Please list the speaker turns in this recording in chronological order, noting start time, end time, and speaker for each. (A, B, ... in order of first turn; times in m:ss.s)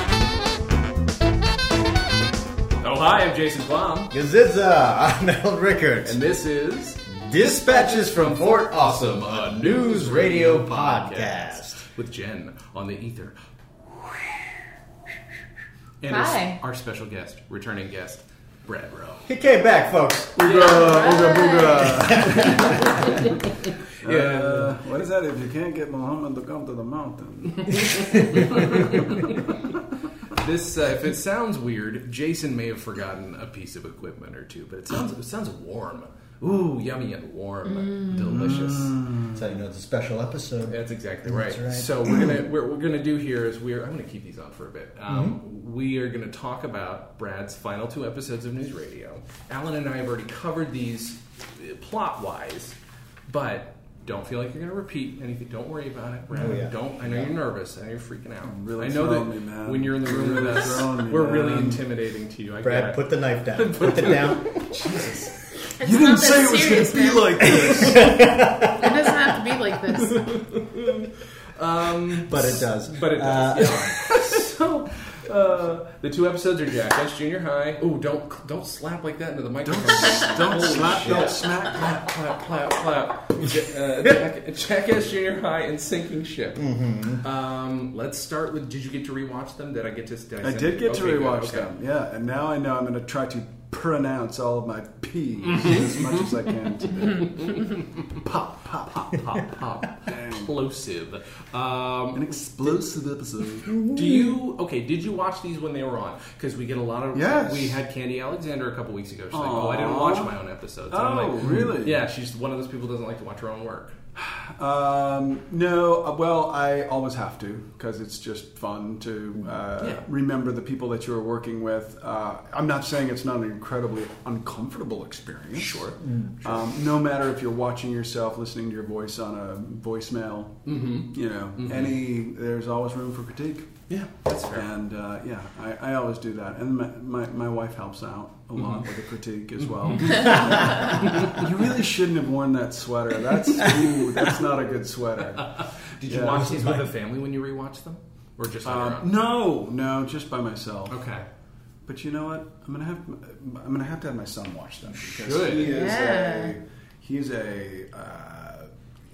0:02.8-0:04.1 A
0:04.1-0:06.2 B
0:06.0-0:13.4 A
0:07.1-0:11.8 B
0:16.0-0:19.3 A
0:16.1-0:16.6 C
0:19.2-0:20.4 B
0:20.4-0:29.4 D
0:20.4-0:21.5 A
0:20.5-0:22.3 C
0:21.9-0:23.0 B
0:22.3-0:24.7 A
0:27.7-0:29.4 A
0:30.3-0:39.0 A
0:38.1-0:39.4 D
0:39.3-0:42.4 B
0:40.6-0:52.8 A
0:45.1-0:45.4 B
0:53.3-1:05.3 A
0:56.4-0:57.3 B
0:58.4-1:01.8 D
1:02.6-1:04.6 B
1:05.8-1:08.0 C
1:05.8-1:08.4 D
1:07.4-1:09.1 B
1:08.7-1:10.4 C
1:10.2-1:31.7 A
1:12.2-1:14.0 B
1:19.6-1:22.1 D
1:26.6-1:27.2 B
1:30.4-1:39.2 D
1:35.6-1:36.1 A
1:37.2-1:38.2 A
1:38.8-1:42.8 A
1:40.0-1:40.5 D
1:42.1-1:43.8 D
1:43.7-1:44.4 B
1:43.9-1:54.0 A
1:47.1-1:47.8 D
1:49.3-1:50.3 D
1:50.9-1:52.0 D
1:54.2-2:05.9 D
1:59.8-2:00.0 A
2:05.5-2:06.1 A
2:06.0-2:06.3 B
2:06.4-2:13.7 D
2:10.6-2:12.0 A
2:13.9-2:14.7 A
2:14.5-2:26.4 D
2:18.6-2:18.9 A
2:19.6-2:21.4 A
2:20.3-2:20.9 B
2:23.6-2:24.2 B
2:25.5-2:29.2 A
2:26.3-2:26.9 B
2:28.6-2:31.0 D
2:30.9-2:31.2 A
2:31.8-2:38.7 D
2:34.9-2:36.0 A
2:35.6-2:36.5 C